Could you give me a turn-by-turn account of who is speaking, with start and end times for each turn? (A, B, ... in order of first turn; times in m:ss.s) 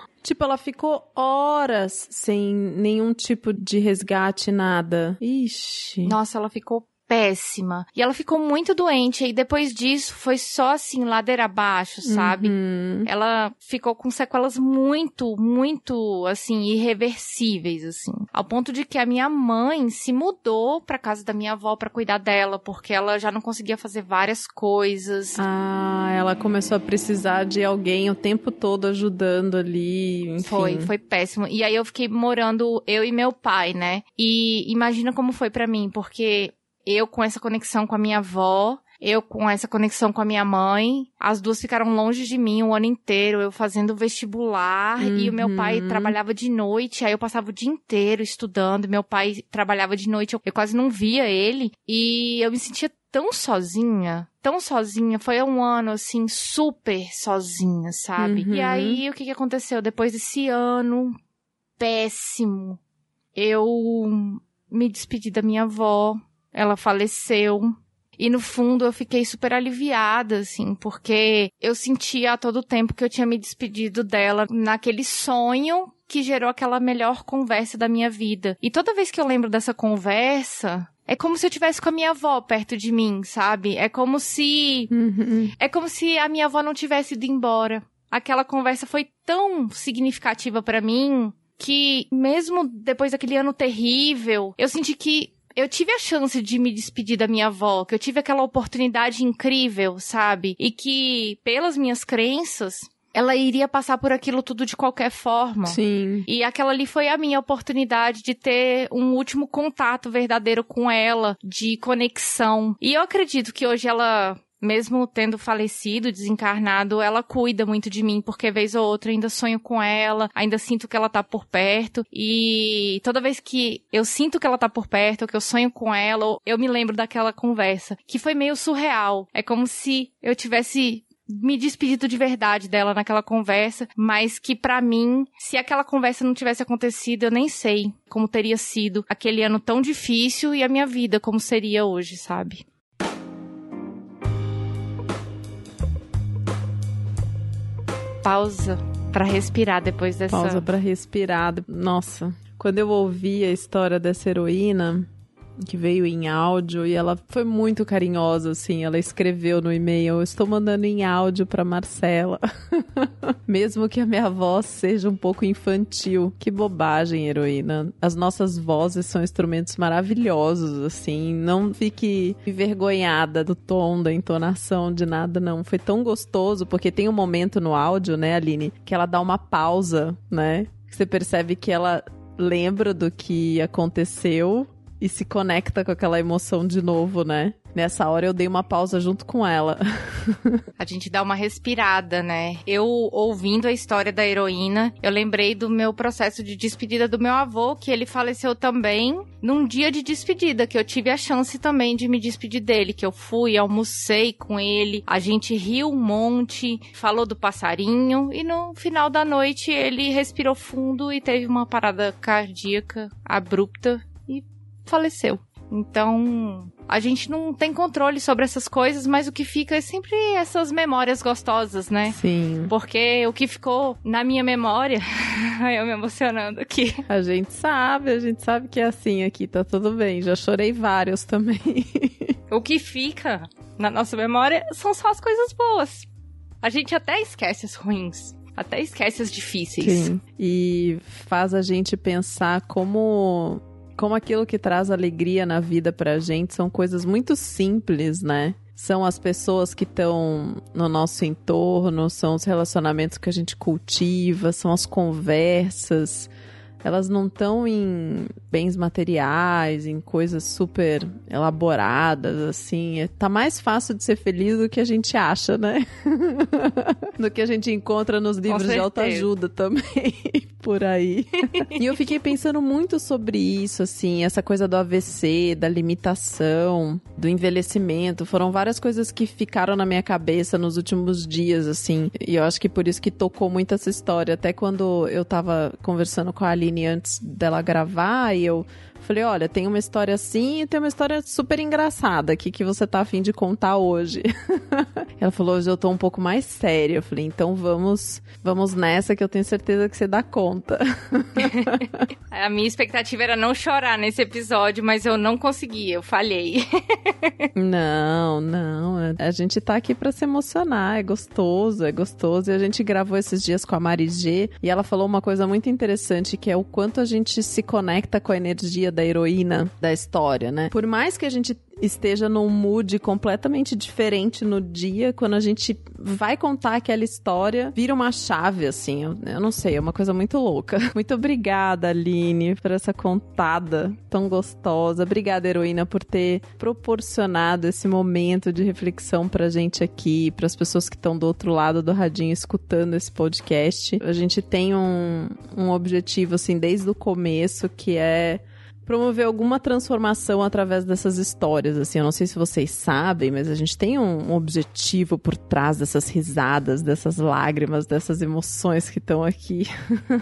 0:00.2-0:06.1 A
0:06.0-0:25.4 B
0:12.0-0:13.1 A
0:25.4-0:30.9 A
0:30.4-1:01.1 B
0:45.0-0:46.2 A
0:58.2-0:59.0 A
1:01.8-1:02.8 B
1:03.3-1:24.9 B
1:24.9-1:25.5 A
1:25.6-2:22.6 B
1:45.6-1:46.3 A
2:28.2-2:30.6 B
2:30.3-2:35.1 A
2:35.6-3:10.6 A
3:10.8-3:47.0 B
3:42.1-3:42.7 A
3:47.1-3:52.3 A
3:52.5-3:56.1 B
3:56.6-4:00.1 B
3:59.8-4:16.3 A
4:16.8-5:02.0 A
4:28.5-4:29.3 B
4:31.4-4:31.8 B
5:01.4-5:07.5 B
5:07.5-5:59.7 A